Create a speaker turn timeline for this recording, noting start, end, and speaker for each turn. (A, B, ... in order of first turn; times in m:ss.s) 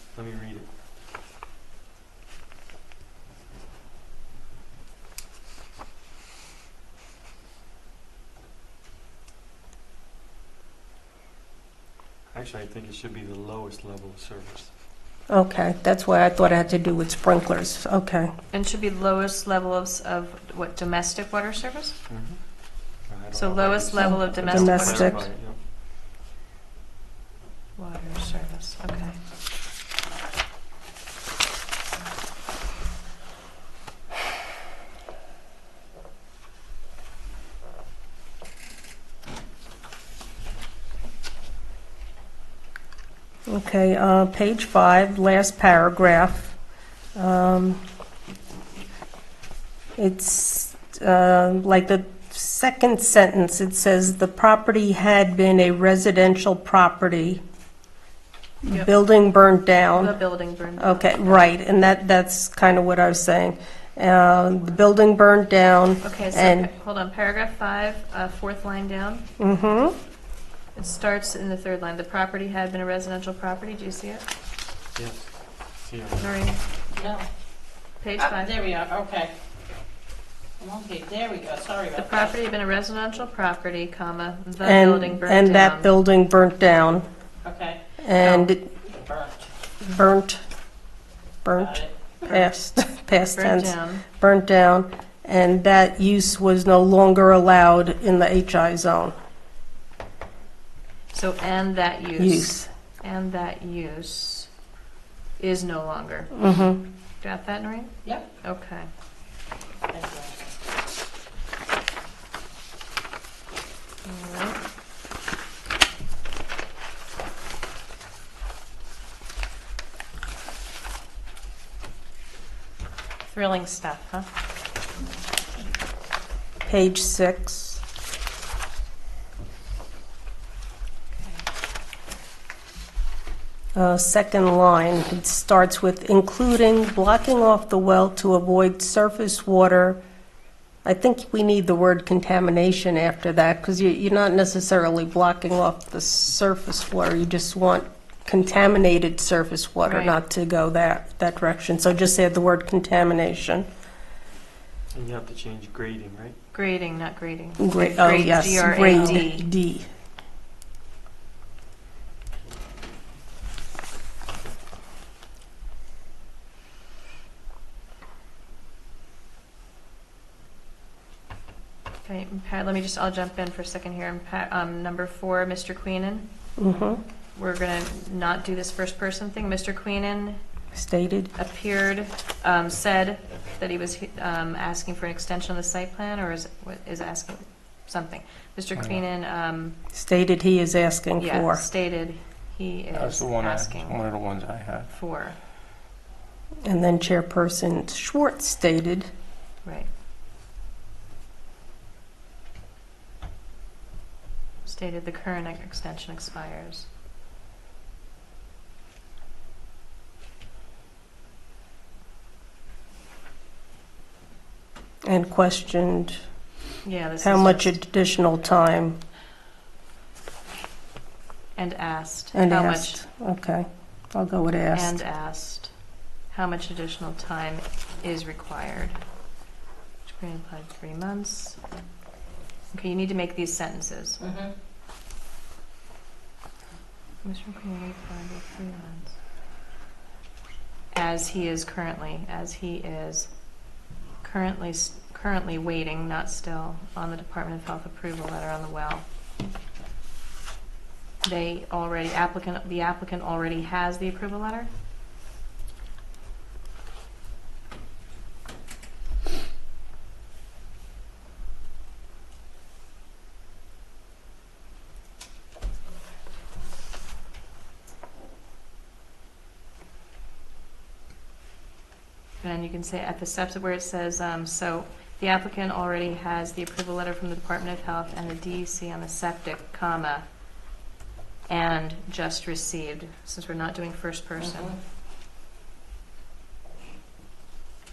0:00.1-0:00.7 A
0:12.3-0:14.7 A
0:15.3-0:18.3 B
0:18.5-0:22.0 C
0:22.1-0:22.4 A
0:23.0-0:25.6 A
0:23.3-0:25.3 C
0:24.0-0:25.2 B
0:27.8-0:29.2 C
0:43.5-0:46.6 B
0:47.2-0:47.8 B
0:50.0-0:57.4 B
0:58.6-1:00.2 B
0:59.9-1:01.5 C
1:00.8-1:06.7 B
1:06.0-1:09.2 C
1:09.4-1:10.0 B
1:10.8-1:14.3 C
1:15.0-1:16.5 A
1:16.2-1:16.6 C
1:17.0-1:17.3 D
1:18.0-1:18.6 C
1:18.2-1:19.3 D
1:20.6-1:22.4 D
1:22.0-1:25.9 C
1:24.6-1:27.0 B
1:27.4-1:27.8 D
1:28.0-1:28.6 B
1:28.2-1:28.5 C
1:28.9-1:29.5 D
1:29.8-1:30.4 B
1:31.4-1:39.2 B
1:31.6-1:32.0 D
1:33.3-1:34.0 C
1:41.1-1:44.5 C
1:42.2-1:42.7 B
1:45.4-1:46.3 C
1:46.3-1:46.8 B
1:47.2-1:48.9 C
1:49.9-1:50.6 D
1:54.0-1:54.6 C
2:03.3-2:04.3 C
2:06.7-2:07.8 B
2:11.1-2:11.4 C
2:13.8-2:20.0 B
2:20.8-2:33.7 B
2:29.8-2:30.2 C
2:34.9-2:36.4 A
2:36.5-2:39.5 C
2:37.6-2:39.9 B
2:52.0-2:56.3 C
2:56.6-2:57.0 B
2:57.4-3:00.4 C
3:00.7-3:01.3 B
3:01.4-3:09.8 C
3:09.9-3:11.7 B
3:11.2-3:14.0 C
3:12.9-3:14.9 E
3:14.9-3:15.4 C
3:16.6-3:19.1 B
3:19.6-3:19.9 C
3:24.6-3:26.9 C
3:35.0-3:36.2 B
3:36.8-3:37.7 C
3:37.2-3:39.0 B
3:41.6-3:43.0 C
3:42.3-3:45.0 B
3:44.7-3:45.7 C
3:46.3-3:49.0 C
3:50.1-3:51.6 C
3:52.7-3:54.2 C
3:54.2-3:54.5 D
3:57.2-3:59.2 C
4:00.9-4:03.3 C
4:04.2-4:09.0 C
4:11.2-4:14.7 C
4:32.4-4:40.2 C
4:41.5-4:44.8 C
4:44.4-4:44.8 D